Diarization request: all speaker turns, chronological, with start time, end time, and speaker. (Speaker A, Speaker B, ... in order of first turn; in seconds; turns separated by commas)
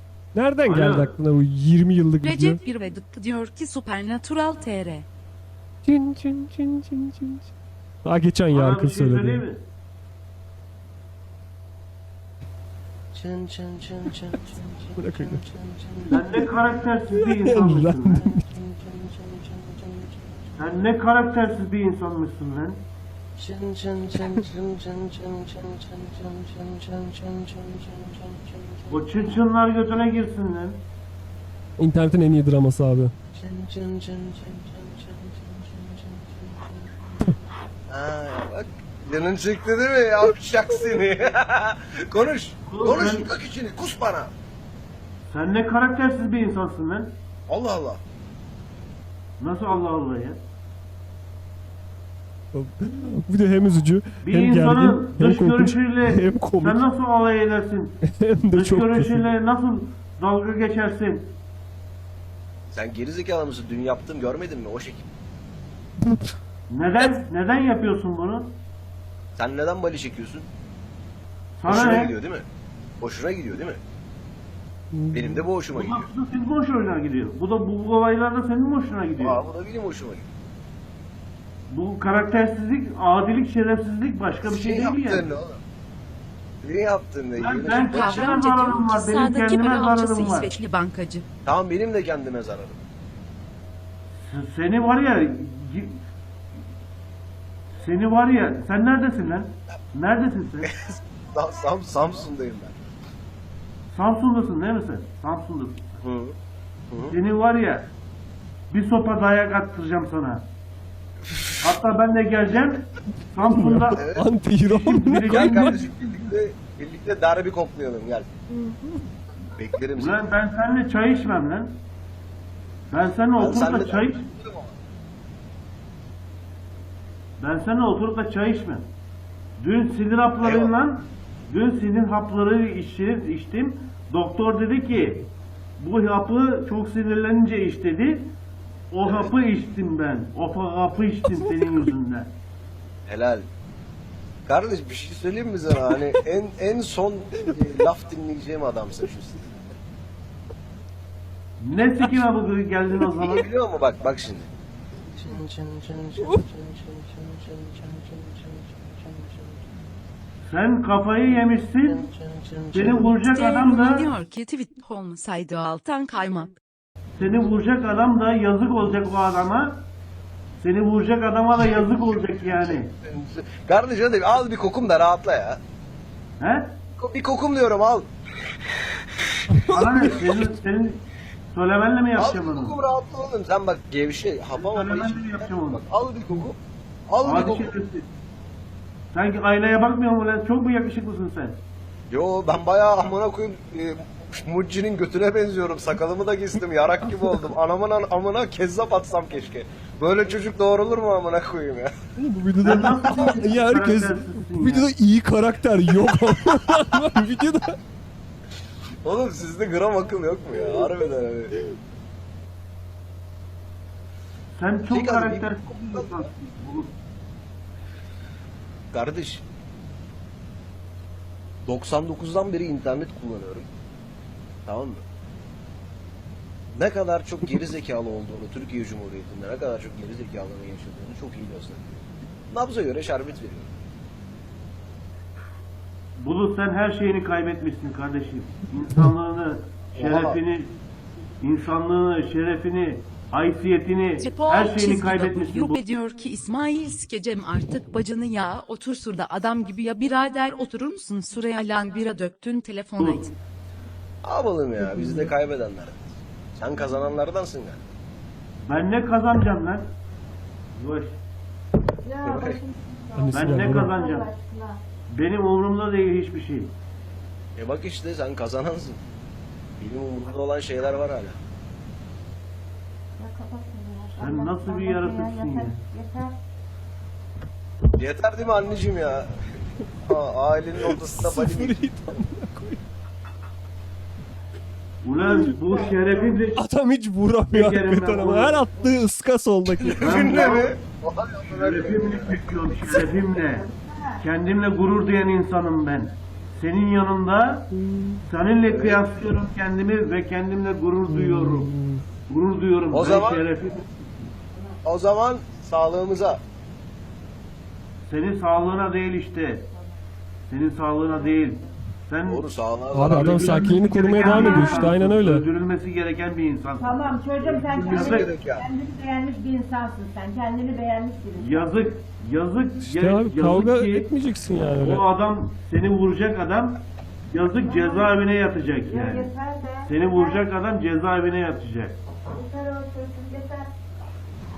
Speaker A: 0.3-2.6, Speaker B: 0.6-1.2, Speaker C: 2.2-5.0, Speaker A: 5.8-7.5, Speaker A: 8.0-9.4, Speaker B: 8.5-9.6, Speaker D: 13.1-16.1, Speaker A: 15.0-15.4, Speaker A: 16.1-16.4, Speaker B: 16.1-18.2, Speaker A: 17.1-18.4, Speaker D: 18.2-20.4, Speaker B: 20.6-22.8, Speaker D: 23.4-29.4, Speaker B: 28.9-30.8, Speaker A: 31.8-33.1, Speaker D: 33.3-37.2, Speaker D: 37.9-44.3, Speaker B: 42.7-43.3, Speaker B: 45.3-47.1, Speaker D: 47.5-48.0, Speaker B: 49.4-50.4, Speaker A: 52.5-56.8, Speaker B: 54.2-58.0, Speaker A: 58.1-59.3, Speaker B: 58.5-61.3, Speaker D: 62.7-65.1, Speaker A: 66.0-66.3, Speaker B: 66.7-68.5, Speaker D: 69.3-70.5, Speaker B: 71.6-72.1, Speaker D: 71.7-72.5, Speaker D: 73.0-73.8, Speaker A: 74.9-75.4, Speaker D: 75.1-76.1, Speaker B: 75.7-79.4, Speaker D: 79.2-80.3, Speaker B: 81.7-85.3, Speaker D: 84.4-85.6, Speaker D: 86.6-88.3, Speaker B: 87.4-90.5, Speaker C: 87.9-91.2, Speaker D: 91.5-92.8, Speaker B: 94.2-96.0, Speaker B: 97.7-100.7, Speaker D: 100.6-102.8, Speaker B: 103.9-106.0, Speaker D: 106.0-106.3, Speaker D: 106.9-107.2, Speaker B: 107.1-107.9, Speaker B: 108.7-110.5, Speaker B: 111.6-114.0, Speaker A: 113.4-115.8, Speaker D: 114.0-114.3, Speaker B: 114.6-115.8, Speaker D: 115.3-118.3, Speaker A: 118.5-119.0, Speaker D: 119.6-120.2, Speaker B: 120.0-121.8, Speaker B: 122.9-124.3, Speaker D: 123.3-124.7, Speaker B: 127.4-128.9, Speaker B: 129.6-135.3, Speaker D: 130.4-130.7, Speaker B: 135.8-138.3, Speaker B: 138.9-142.3, Speaker D: 139.0-139.3, Speaker D: 143.1-143.4, Speaker D: 144.5-149.7, Speaker B: 151.6-153.5, Speaker D: 153.2-154.5, Speaker D: 155.1-159.6, Speaker B: 160.5-162.0, Speaker D: 161.8-163.1, Speaker B: 162.7-164.1, Speaker C: 163.3-166.5, Speaker B: 167.2-169.8, Speaker B: 170.6-172.9, Speaker D: 171.6-175.6, Speaker B: 176.4-176.8, Speaker D: 176.9-178.1, Speaker A: 179.5-180.5, Speaker B: 179.7-182.8, Speaker D: 182.2-186.6, Speaker B: 184.6-185.8, Speaker D: 187.1-187.7, Speaker B: 187.2-188.1, Speaker B: 189.1-191.6, Speaker D: 192.1-202.0, Speaker A: 202.2-207.8, Speaker B: 202.6-204.9, Speaker D: 209.0-211.5, Speaker B: 214.6-216.9, Speaker D: 214.9-216.2, Speaker D: 218.9-219.4, Speaker D: 221.6-223.7, Speaker D: 224.7-225.0, Speaker D: 226.7-233.8, Speaker B: 236.2-240.8, Speaker D: 239.9-240.4, Speaker B: 241.4-245.8, Speaker C: 244.2-253.3, Speaker B: 253.0-253.3, Speaker D: 254.2-257.8, Speaker B: 258.6-259.9, Speaker B: 260.7-261.2, Speaker E: 262.0-264.8, Speaker D: 262.2-262.6, Speaker A: 263.1-263.9, Speaker B: 263.3-264.3, Speaker B: 265.1-266.7, Speaker D: 267.6-269.0, Speaker D: 269.8-271.4, Speaker E: 273.2-276.3, Speaker B: 274.2-275.8, Speaker D: 278.0-279.3, Speaker D: 280.0-281.8, Speaker A: 280.8-282.8, Speaker B: 285.0-286.6, Speaker E: 285.7-286.2, Speaker A: 286.6-290.2, Speaker B: 287.5-288.6, Speaker D: 289.8-293.0, Speaker B: 290.0-290.7, Speaker B: 291.4-293.6, Speaker E: 293.3-294.2, Speaker B: 294.2-297.7, Speaker A: 297.7-298.2, Speaker B: 298.3-301.7, Speaker D: 298.6-299.1, Speaker A: 301.1-302.0, Speaker B: 302.3-303.8, Speaker D: 302.9-303.5, Speaker D: 304.8-306.4, Speaker B: 308.1-309.6, Speaker B: 310.5-312.5, Speaker E: 311.1-311.6, Speaker D: 312.2-313.7, Speaker A: 312.9-315.5, Speaker B: 313.0-318.3, Speaker E: 313.8-314.9, Speaker E: 316.8-321.7, Speaker D: 317.6-318.7, Speaker B: 321.4-324.1, Speaker A: 322.8-325.1, Speaker B: 324.8-329.3, Speaker E: 327.6-328.2, Speaker E: 328.9-330.4, Speaker B: 329.9-332.0, Speaker E: 332.3-333.7